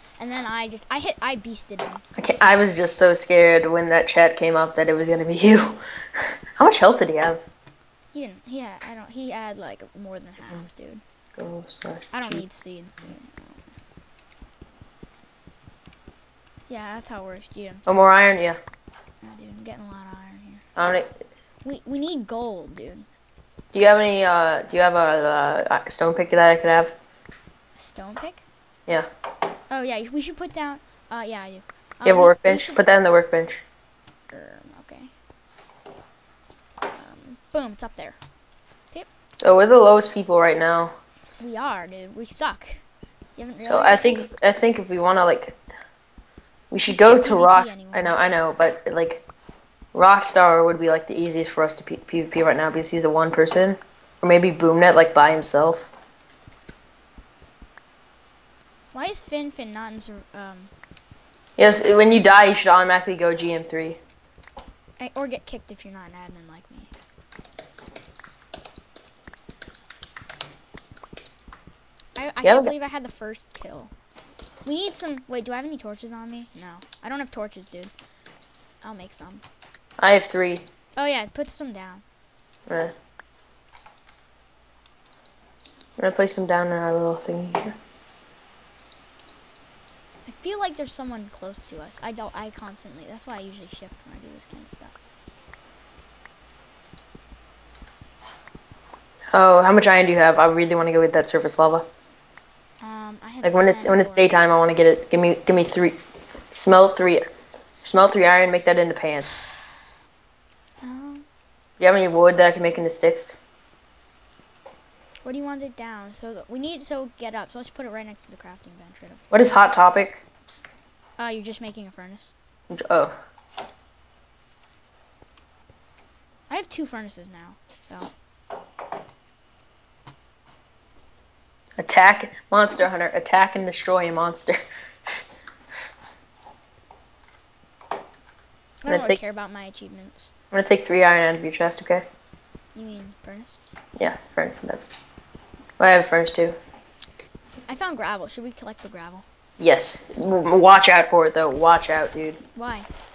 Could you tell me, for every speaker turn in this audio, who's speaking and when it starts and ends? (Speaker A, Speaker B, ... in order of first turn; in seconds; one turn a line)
Speaker A: 0.2-2.0
Speaker B: 2.2-7.4
Speaker A: 8.1-11.0
Speaker B: 11.4-12.4
Speaker A: 12.1-13.6
Speaker A: 16.7-17.9
Speaker B: 17.9-18.6
Speaker A: 19.2-20.6
Speaker B: 20.8-21.2
Speaker A: 21.6-23.1
Speaker B: 23.7-26.9
Speaker A: 27.7-28.4
Speaker A: 29.7-32.8
Speaker B: 32.0-33.6
Speaker A: 34.3-35.1
Speaker A: 36.9-38.2
Speaker B: 39.4-40.9
Speaker A: 41.4-42.8
Speaker A: 43.4-44.2
Speaker B: 43.6-45.6
Speaker B: 46.7-49.2
Speaker A: 46.9-48.2
Speaker B: 49.9-55.9
Speaker A: 58.9-60.7
Speaker B: 61.6-64.0
Speaker A: 65.0-66.9
Speaker A: 72.2-73.9
Speaker B: 72.4-72.7
Speaker A: 74.6-77.9
Speaker A: 78.8-79.4
Speaker B: 80.0-80.6
Speaker A: 81.0-82.0
Speaker B: 82.7-82.9
Speaker B: 86.0-87.8
Speaker A: 90.2-95.0
Speaker B: 99.3-101.8
Speaker A: 102.8-104.3
Speaker B: 103.4-106.0
Speaker B: 106.5-107.2
Speaker B: 107.8-109.3
Speaker A: 110.8-111.2
Speaker B: 111.8-113.4
Speaker A: 115.2-119.2
Speaker B: 119.3-120.2
Speaker A: 121.2-122.3
Speaker B: 122.7-123.1
Speaker A: 126.5-128.1
Speaker B: 131.8-134.6
Speaker A: 138.8-140.3
Speaker B: 138.9-139.2
Speaker B: 140.5-142.0
Speaker A: 142.7-143.6
Speaker B: 144.0-144.8
Speaker B: 145.8-146.6
Speaker A: 147.7-149.2
Speaker B: 149.6-152.4
Speaker A: 152.5-152.9